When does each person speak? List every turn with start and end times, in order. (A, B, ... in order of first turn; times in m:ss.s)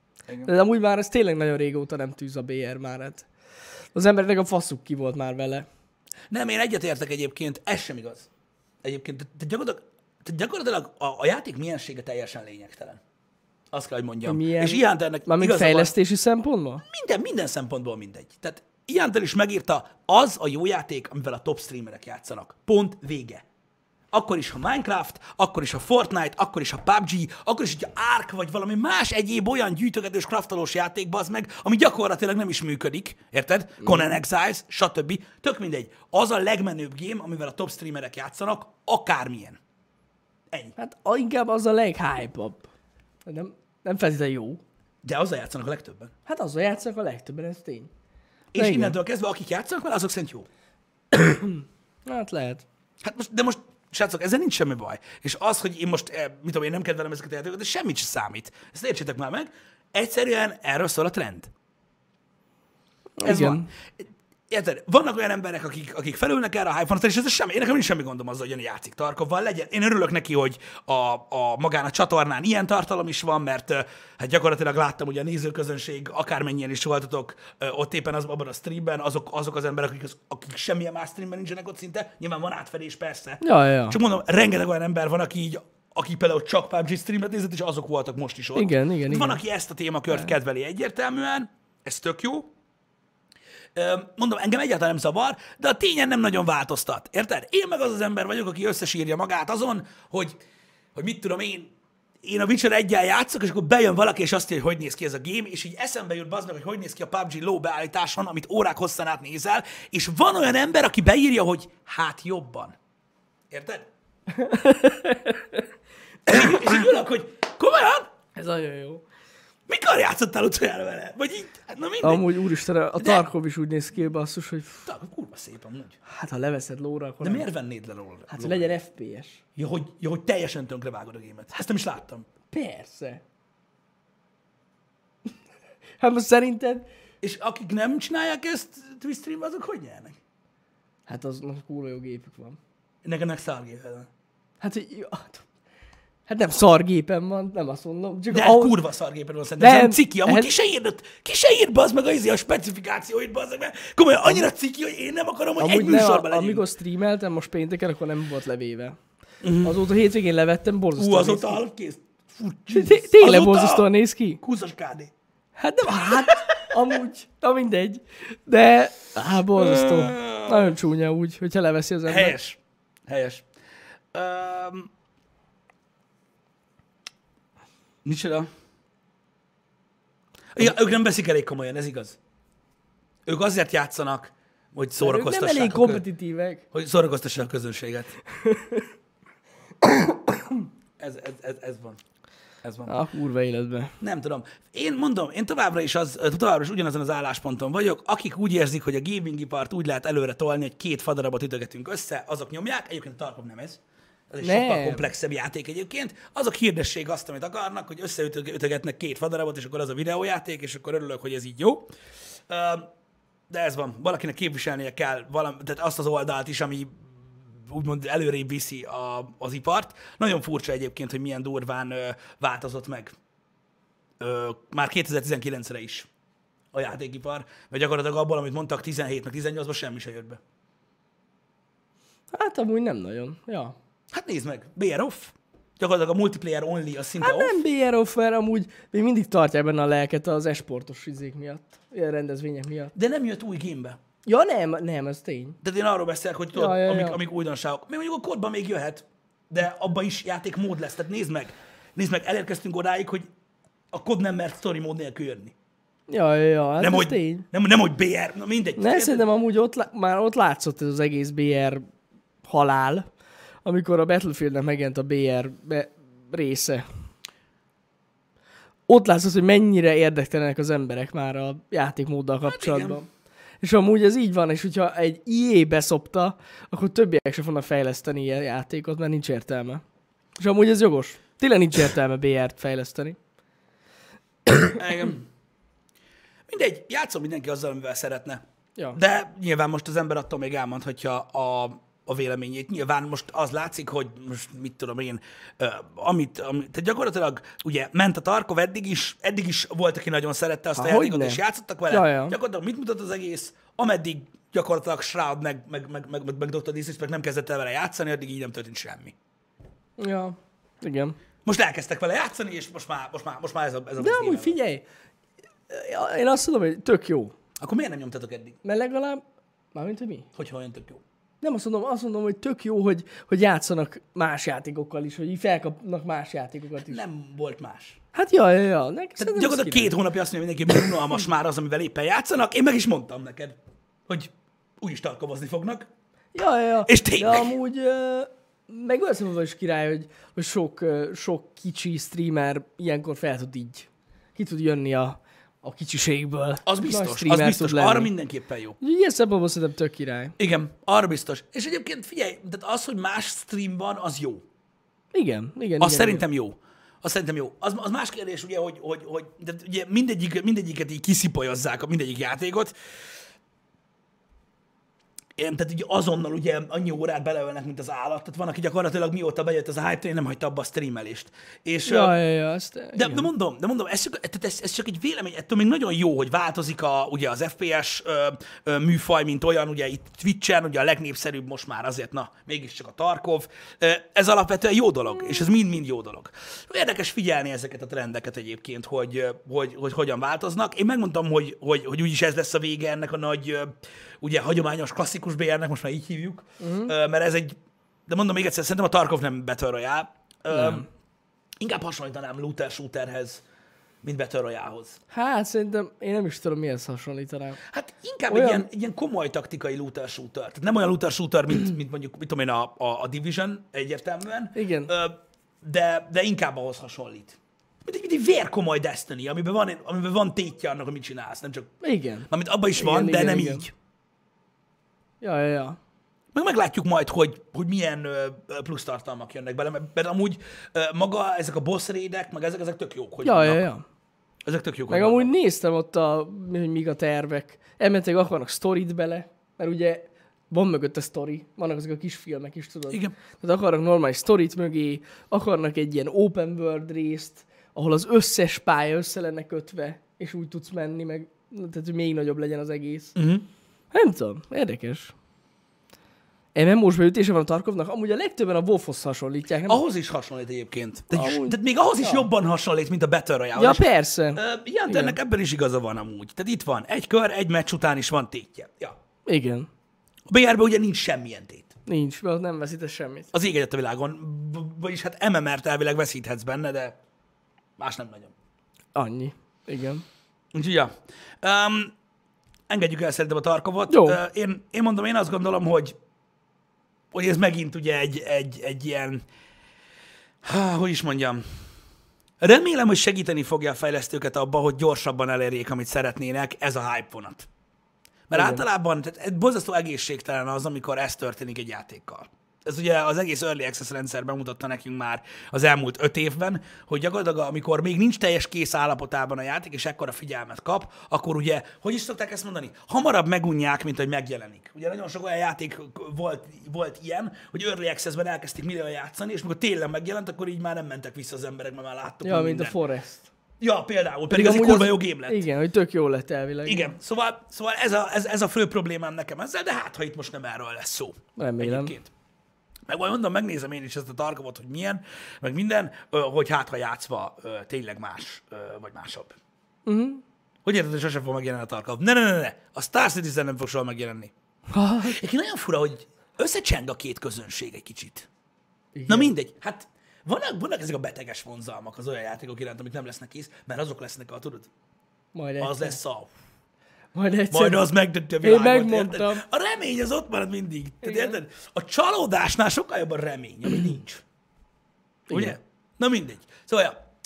0:00.4-0:03.3 A
0:03.9-0:05.7 A
0:06.3-0:08.3 B
0:08.8-0:13.0 B
0:13.7-0:15.9 B
0:14.2-0:16.8 A
0:16.8-0:23.4 B
0:24.1-0:39.6 B
0:33.8-0:34.1 A
0:40.8-0:42.7 A
0:43.3-0:44.6 A
0:45.0-0:46.1 B
0:46.3-0:47.9 A
0:48.5-0:50.5 B
0:48.6-0:49.0 A
0:51.1-0:52.6 A
0:53.0-1:01.5 B
1:03.2-1:03.7 A
1:03.2-1:32.5 B
1:23.4-1:24.0 A
1:28.6-1:29.4 A
1:33.8-1:40.4 B
1:41.0-1:52.8 B
1:53.5-1:53.9 B
1:54.3-1:55.6 A
1:56.3-1:58.1 B
1:58.4-1:59.0 A
1:59.7-2:02.3 B
2:02.0-2:04.8 A
2:03.0-2:03.3 B
2:04.8-2:06.0 B
2:06.1-2:07.5 A
2:07.2-2:08.7 B
2:08.3-2:09.4 A
2:09.6-2:12.3 B
2:12.5-2:13.2 A
2:16.0-2:16.9 A
2:17.2-2:20.2 B
2:21.1-2:22.6 A
2:23.0-2:24.1 B
2:24.6-2:25.4 A
2:26.3-2:28.8 A
2:28.3-2:36.6 B
2:29.6-2:30.5 A
2:35.6-2:39.0 A
2:39.4-2:39.8 B
2:39.6-2:41.6 A
2:41.0-2:43.9 B
2:42.7-2:44.4 A
2:44.4-2:45.1 B
2:45.6-2:52.4 A
2:46.0-2:46.6 B
2:49.6-2:50.8 B
2:52.1-2:53.4 B
2:54.1-2:54.9 B
2:58.0-2:58.5 B
3:00.6-3:02.2 B
3:03.3-3:06.0 B
3:05.0-3:06.6 A
3:06.7-3:08.1 B
3:08.3-3:08.9 A
3:11.0-3:12.0 B
3:12.6-3:13.0 B
3:12.9-3:13.9 A
3:14.0-3:31.9 B
3:24.4-3:25.1 A
3:32.5-3:32.9 B
3:33.5-3:43.2 B
3:44.2-3:46.1 B
3:46.7-3:50.4 B
3:52.3-3:53.8 A
3:54.1-3:57.6 B
3:57.2-4:02.9 A
4:02.9-4:04.0 B
4:04.3-4:05.6 A
4:05.6-4:13.3 B
4:06.5-4:07.2 A
4:13.9-4:15.5 B
4:16.1-4:17.5 A
4:16.8-4:19.2 B
4:18.8-4:21.8 A
4:22.4-4:23.1 A
4:23.6-4:26.8 A
4:28.9-4:33.1 A
4:32.4-4:33.0 B
4:33.6-4:39.8 A
4:40.4-4:43.2 A
4:44.5-4:45.3 B
4:46.5-4:48.4 B
4:48.9-5:09.2 B
5:00.8-5:02.4 A
5:10.0-5:11.2 A
5:11.4-5:14.6 B
5:14.0-5:14.8 A
5:15.7-5:17.3 A
5:17.6-5:18.6 B
5:18.6-5:19.2 A
5:19.7-5:20.3 A
5:20.3-5:21.0 B
5:21.4-5:27.0 A
5:26.9-5:28.0 B
5:28.1-5:30.0 A
5:29.2-5:35.9 B
5:36.3-5:48.1 A
5:36.8-5:37.5 B
5:46.6-5:48.8 B
5:48.8-5:50.4 A
5:50.4-5:54.4 B
5:55.1-5:56.2 A
5:55.8-6:02.7 B
6:05.4-6:12.2 B
6:11.9-6:13.3 A
6:13.0-6:37.6 B
6:36.6-6:36.9 A
6:38.1-6:40.9 B
6:40.5-6:40.9 A
6:41.6-6:43.4 B
6:44.0-6:45.0 B
6:45.1-6:47.6 A
6:47.7-7:01.7 B
6:48.3-6:48.7 A
6:54.6-6:54.9 A
7:01.8-7:03.7 A
7:02.3-7:03.7 B
7:05.2-7:05.8 A
7:06.3-7:13.7 B
7:13.2-7:13.8 A
7:14.4-7:15.3 B
7:14.9-7:33.2 A
7:33.2-7:33.5 B
7:33.9-7:35.1 A
7:36.6-7:39.8 A
7:39.7-7:49.0 B
7:41.1-7:42.3 A
7:43.6-7:45.2 A
7:49.3-7:49.7 A
7:50.3-7:51.7 B
7:51.9-7:53.3 A
7:53.3-7:57.0 B
7:57.8-7:58.3 B
7:59.0-8:00.0 A
8:00.5-8:01.9 B
8:02.7-8:06.0 B
8:03.9-8:04.2 A
8:07.1-8:09.2 B
8:10.4-8:11.4 B
8:12.4-8:17.5 B
8:18.3-8:42.8 B
8:18.3-8:18.6 A
8:42.2-8:43.3 A
8:43.6-8:45.4 B
8:44.3-8:46.9 A
8:46.7-8:52.1 B
8:51.4-8:51.9 A
8:52.9-8:59.4 B
8:59.9-9:00.2 A
9:00.6-9:04.3 B
9:04.7-9:05.2 A
9:05.0-9:08.3 B
9:09.0-9:09.3 A
9:09.1-9:14.7 B
9:15.3-9:16.0 A
9:15.6-9:16.3 B
9:17.1-9:17.8 A
9:17.5-9:24.2 B
9:18.4-9:19.4 A
9:21.0-9:21.3 A
9:25.3-9:25.6 A
9:25.3-9:27.0 B